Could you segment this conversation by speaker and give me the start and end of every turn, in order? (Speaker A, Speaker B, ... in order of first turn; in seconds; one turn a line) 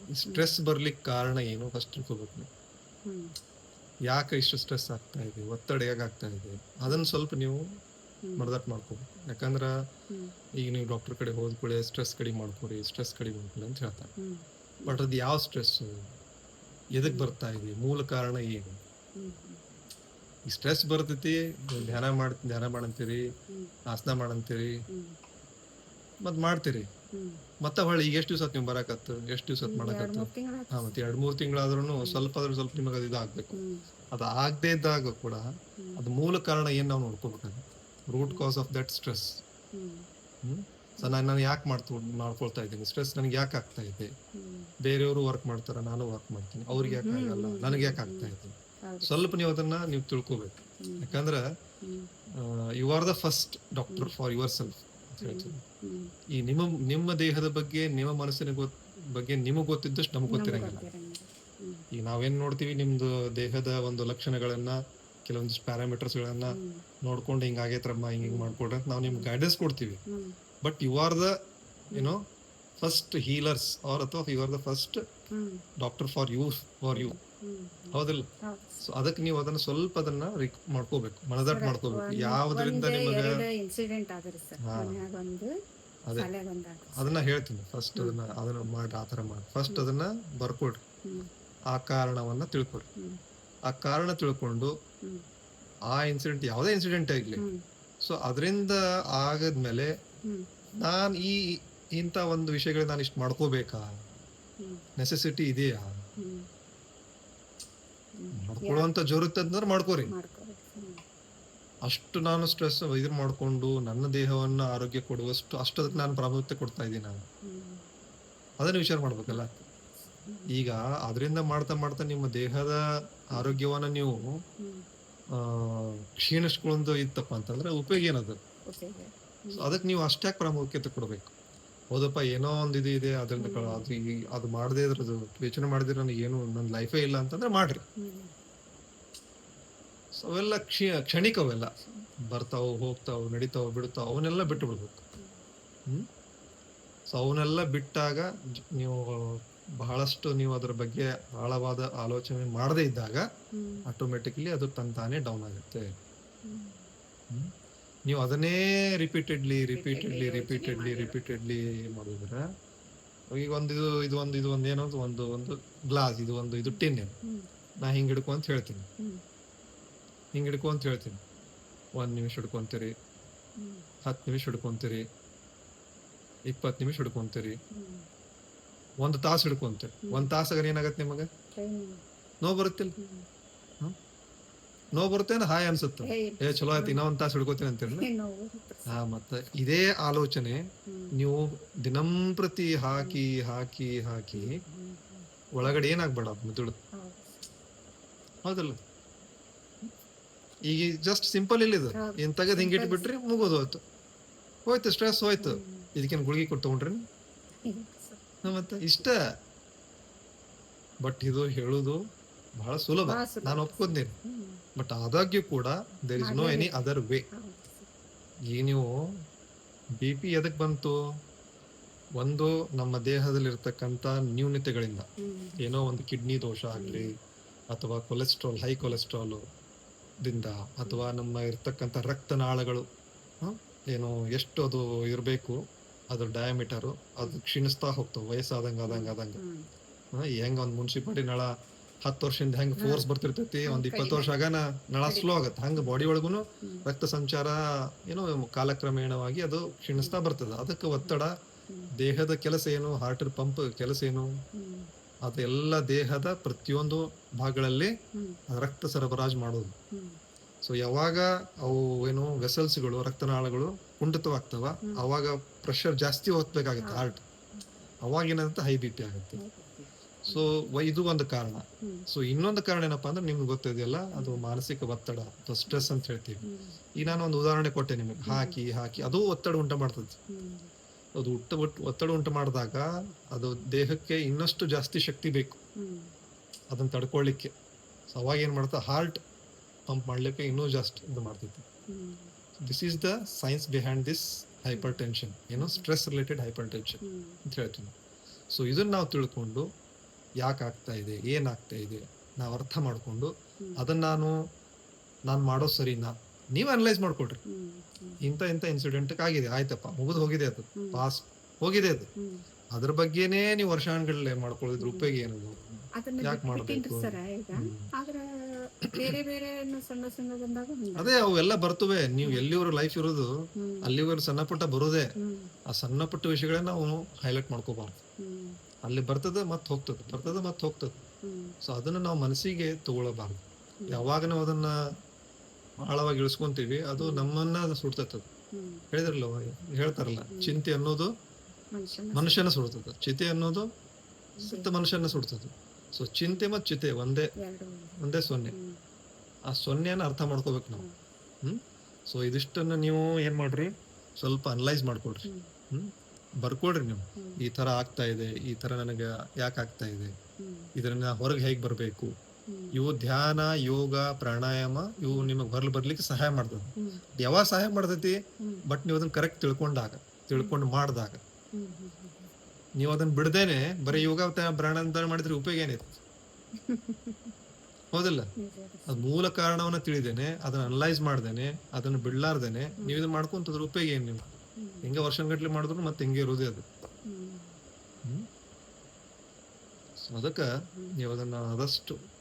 Speaker A: 0.1-2.5
Speaker B: 3.0-3.3
Speaker A: 4.1-7.6
Speaker B: 6.9-7.1
Speaker B: 8.2-8.5
Speaker A: 8.4-9.7
Speaker B: 10.1-10.3
Speaker A: 10.6-14.1
Speaker B: 14.2-15.0
Speaker A: 14.8-16.0
Speaker A: 16.9-18.8
Speaker B: 17.0-17.3
Speaker B: 19.1-19.6
Speaker A: 20.5-23.2
Speaker B: 23.5-23.7
Speaker A: 23.9-24.8
Speaker B: 24.9-25.2
Speaker A: 26.2-26.9
Speaker B: 27.1-27.4
Speaker A: 27.6-33.6
Speaker B: 29.6-30.9
Speaker B: 33.5-33.9
Speaker A: 34.1-35.4
Speaker A: 36.0-39.4
Speaker B: 39.7-40.1
Speaker A: 40.4-44.1
Speaker B: 44.3-44.7
Speaker A: 44.8-51.4
Speaker B: 46.7-48.3
Speaker B: 48.8-49.1
Speaker B: 50.8-51.2
Speaker B: 51.8-52.1
Speaker A: 52.4-55.6
Speaker B: 55.2-56.1
Speaker A: 56.4-60.8
Speaker B: 60.3-61.9
Speaker A: 61.9-70.0
Speaker B: 66.5-66.8
Speaker B: 68.2-68.5
Speaker B: 70.1-70.4
Speaker A: 70.6-71.3
Speaker A: 71.9-72.2
Speaker A: 72.8-75.0
Speaker B: 75.3-75.6
Speaker A: 75.8-77.2
Speaker B: 76.9-78.8
Speaker A: 77.9-78.2
Speaker A: 78.8-83.4
Speaker B: 81.5-85.5
Speaker A: 84.6-85.0
Speaker B: 86.1-87.1
Speaker A: 86.9-90.8
Speaker A: 91.7-92.9
Speaker A: 93.7-94.7
Speaker A: 95.9-97.4
Speaker B: 97.4-97.6
Speaker A: 98.0-99.9
Speaker A: 100.8-103.8
Speaker B: 104.6-104.8
Speaker A: 105.0-105.8
Speaker B: 106.2-106.5
Speaker B: 108.1-108.9
Speaker A: 108.3-110.1
Speaker B: 110.0-111.0
Speaker A: 111.9-117.2
Speaker B: 117.4-117.9
Speaker A: 118.6-119.5
Speaker B: 119.3-119.7
Speaker B: 120.2-120.5
Speaker A: 120.5-122.8
Speaker A: 123.3-124.2
Speaker B: 124.6-124.8
Speaker A: 125.3-128.4
Speaker B: 128.7-129.8
Speaker A: 129.5-131.3
Speaker A: 131.9-137.8
Speaker B: 133.4-133.9
Speaker B: 138.0-138.3
Speaker A: 140.2-141.7
Speaker A: 142.3-145.0
Speaker B: 144.4-145.4
Speaker A: 147.1-153.2
Speaker B: 153.5-153.9
Speaker A: 153.8-155.9
Speaker B: 156.4-156.9
Speaker A: 158.1-162.4
Speaker B: 159.7-161.2
Speaker A: 163.3-167.2
Speaker B: 166.7-167.5
Speaker A: 167.8-168.9
Speaker A: 170.3-171.2
Speaker A: 171.9-172.9
Speaker B: 173.6-173.9
Speaker A: 174.0-175.1
Speaker A: 176.5-177.6
Speaker B: 177.7-178.1
Speaker A: 179.0-181.3
Speaker B: 181.5-182.0
Speaker A: 182.4-182.9
Speaker B: 183.0-183.3
Speaker A: 184.9-188.1
Speaker B: 186.0-187.0
Speaker B: 187.9-189.0
Speaker A: 188.9-190.6
Speaker B: 190.9-191.1
Speaker A: 191.1-194.6
Speaker B: 194.3-195.8
Speaker A: 195.6-196.8
Speaker B: 196.9-197.5
Speaker A: 198.4-198.8
Speaker A: 200.7-203.8
Speaker B: 201.9-203.1
Speaker A: 204.7-207.0
Speaker B: 205.4-205.9
Speaker B: 207.6-208.4
Speaker A: 208.4-209.2
Speaker A: 211.0-212.0
Speaker A: 212.6-214.1
Speaker B: 213.0-214.6
Speaker A: 214.8-217.2
Speaker B: 216.2-216.8
Speaker B: 217.3-217.9
Speaker A: 218.5-218.9
Speaker A: 220.0-221.0
Speaker A: 222.2-225.1
Speaker B: 225.2-225.6
Speaker A: 225.6-227.1
Speaker B: 226.8-227.1
Speaker A: 227.7-229.4
Speaker A: 230.2-232.9
Speaker A: 233.4-235.6
Speaker A: 236.1-239.4
Speaker B: 238.8-239.7
Speaker A: 240.1-241.5
Speaker A: 242.0-251.3
Speaker B: 242.8-243.1
Speaker B: 243.6-244.4
Speaker B: 245.0-245.9
Speaker B: 246.6-246.8
Speaker B: 251.0-251.9
Speaker A: 251.9-254.3
Speaker B: 254.5-254.9
Speaker A: 255.2-257.9
Speaker B: 258.1-258.4
Speaker A: 258.5-259.7
Speaker B: 259.9-260.2
Speaker A: 260.6-267.2
Speaker B: 266.8-267.1
Speaker A: 268.0-269.4
Speaker B: 269.4-270.5
Speaker A: 270.3-276.4
Speaker B: 271.8-272.1
Speaker B: 274.1-274.4
Speaker B: 276.4-277.1
Speaker A: 276.9-280.2
Speaker B: 278.3-278.6
Speaker B: 280.3-280.7
Speaker A: 281.2-285.6
Speaker B: 285.8-286.1
Speaker A: 286.7-287.5
Speaker A: 288.1-289.2
Speaker A: 289.9-291.6
Speaker B: 291.9-292.3
Speaker A: 292.6-297.9
Speaker B: 295.6-295.9
Speaker B: 297.0-297.4
Speaker A: 298.5-299.7
Speaker A: 300.4-304.4
Speaker A: 305.3-307.4
Speaker B: 307.4-308.2
Speaker A: 308.2-312.1
Speaker B: 310.8-311.0
Speaker B: 312.1-312.4
Speaker A: 312.7-317.9
Speaker B: 314.8-315.1
Speaker B: 316.0-321.1
Speaker A: 318.9-319.1
Speaker A: 320.9-323.3
Speaker B: 323.5-323.9
Speaker A: 323.8-325.1
Speaker B: 325.2-325.5
Speaker A: 325.7-328.0
Speaker B: 328.2-328.6
Speaker A: 328.8-331.0
Speaker B: 331.2-331.6
Speaker A: 331.6-334.7
Speaker B: 333.8-334.1
Speaker A: 335.8-338.2
Speaker B: 337.0-337.3
Speaker B: 338.5-338.9
Speaker A: 338.9-341.1
Speaker B: 340.3-340.6
Speaker B: 341.7-342.5
Speaker A: 342.1-343.7
Speaker B: 344.4-344.7
Speaker A: 344.4-347.3
Speaker B: 347.4-347.9
Speaker A: 348.0-348.5
Speaker B: 348.5-348.8
Speaker A: 349.5-350.9
Speaker A: 351.4-360.1
Speaker B: 355.2-355.5
Speaker B: 357.2-357.4
Speaker B: 360.4-360.7
Speaker A: 360.7-362.1
Speaker B: 362.5-362.8
Speaker A: 362.7-371.2
Speaker B: 366.8-367.0
Speaker B: 368.4-368.6
Speaker B: 371.5-372.3
Speaker A: 372.8-376.0
Speaker B: 376.6-377.3
Speaker A: 377.9-378.3
Speaker B: 378.4-379.1
Speaker A: 378.9-384.3
Speaker B: 384.6-384.9
Speaker A: 384.8-386.6
Speaker B: 387.1-387.6
Speaker A: 390.1-392.0